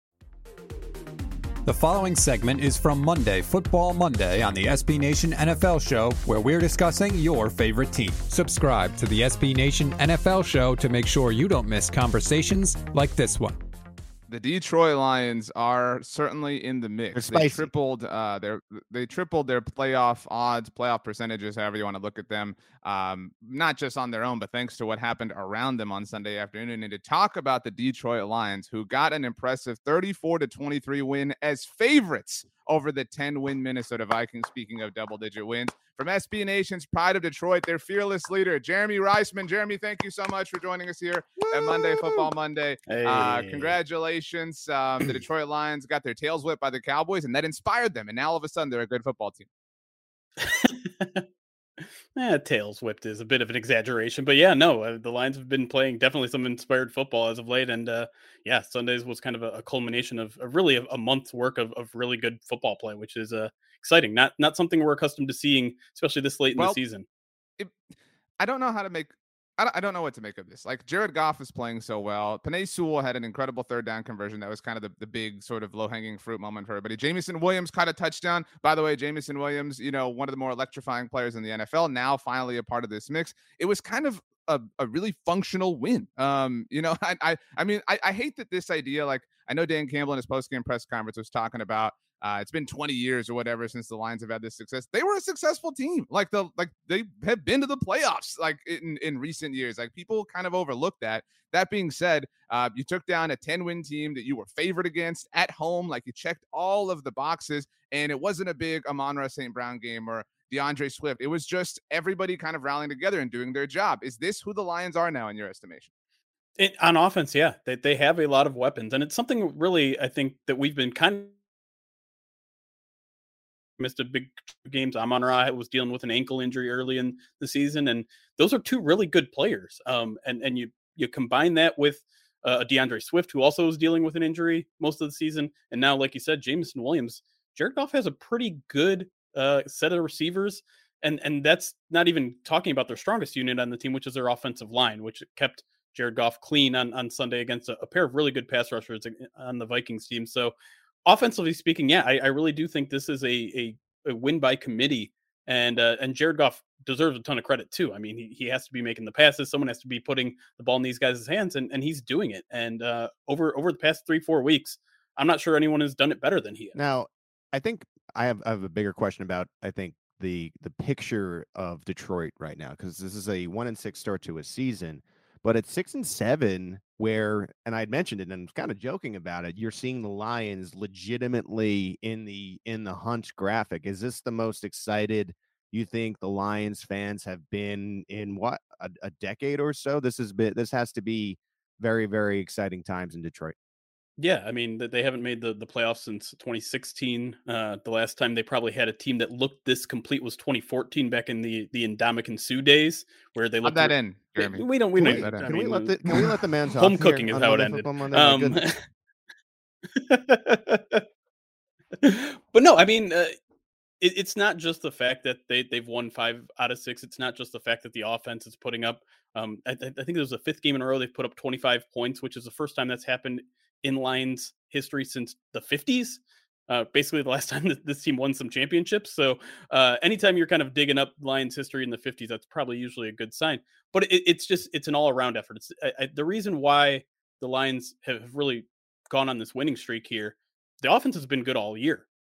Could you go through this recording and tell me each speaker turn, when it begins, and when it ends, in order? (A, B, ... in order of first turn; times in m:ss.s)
0:01.6-0:13.6 A
0:14.3-0:49.5 B
0:17.1-0:17.7 C
0:41.9-0:42.2 D
0:42.9-0:43.8 D
0:50.4-0:51.2 D
0:52.2-1:07.0 D
1:08.4-1:55.9 B
1:56.6-2:01.3 D
2:03.8-2:30.5 D
2:31.0-2:46.8 D
2:46.7-3:13.5 C
3:14.2-3:28.8 D
3:23.6-3:25.4 B
3:25.0-3:28.7 C
3:29.9-3:31.0 D
3:32.0-3:33.3 D
3:34.0-4:02.1 D